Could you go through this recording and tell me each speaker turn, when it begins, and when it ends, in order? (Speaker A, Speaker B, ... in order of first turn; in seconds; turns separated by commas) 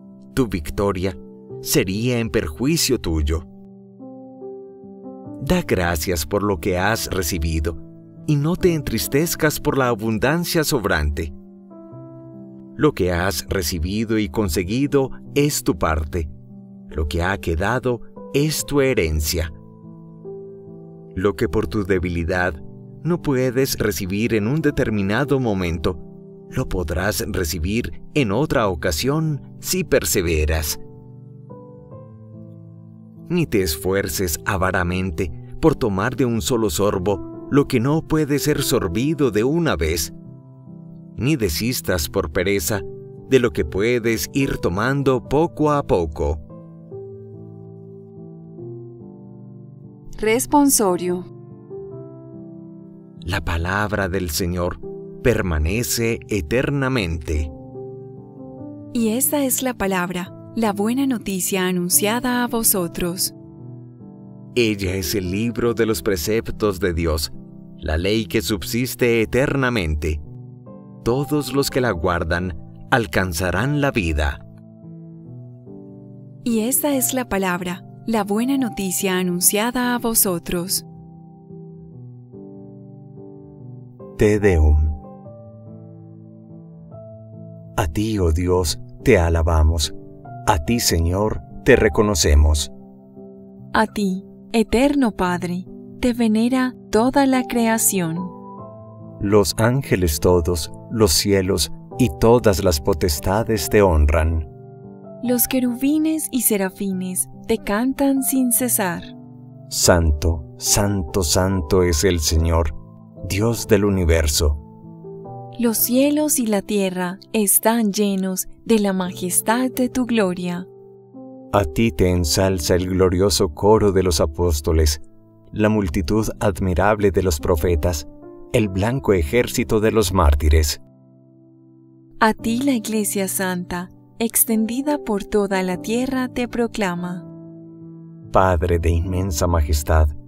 Speaker A: 0.3-3.5, Speaker A: 5.4-11.3, Speaker A: 12.8-16.3, Speaker A: 16.9-19.5, Speaker A: 21.1-30.8, Speaker A: 33.3-40.1, Speaker A: 41.1-46.4, Speaker B: 50.2-51.3, Speaker A: 53.2-57.5, Speaker B: 58.9-63.3, Speaker A: 64.5-70.2, Speaker A: 71.0-74.4, Speaker B: 76.4-80.8, Speaker A: 84.2-85.0, Speaker A: 87.8-89.9, Speaker A: 90.5-92.7, Speaker B: 93.7-98.3, Speaker A: 99.2-104.5, Speaker B: 105.2-109.1, Speaker A: 109.7-114.6, Speaker B: 115.6-120.7, Speaker A: 121.5-130.8, Speaker B: 132.2-137.3, Speaker A: 138.3-140.1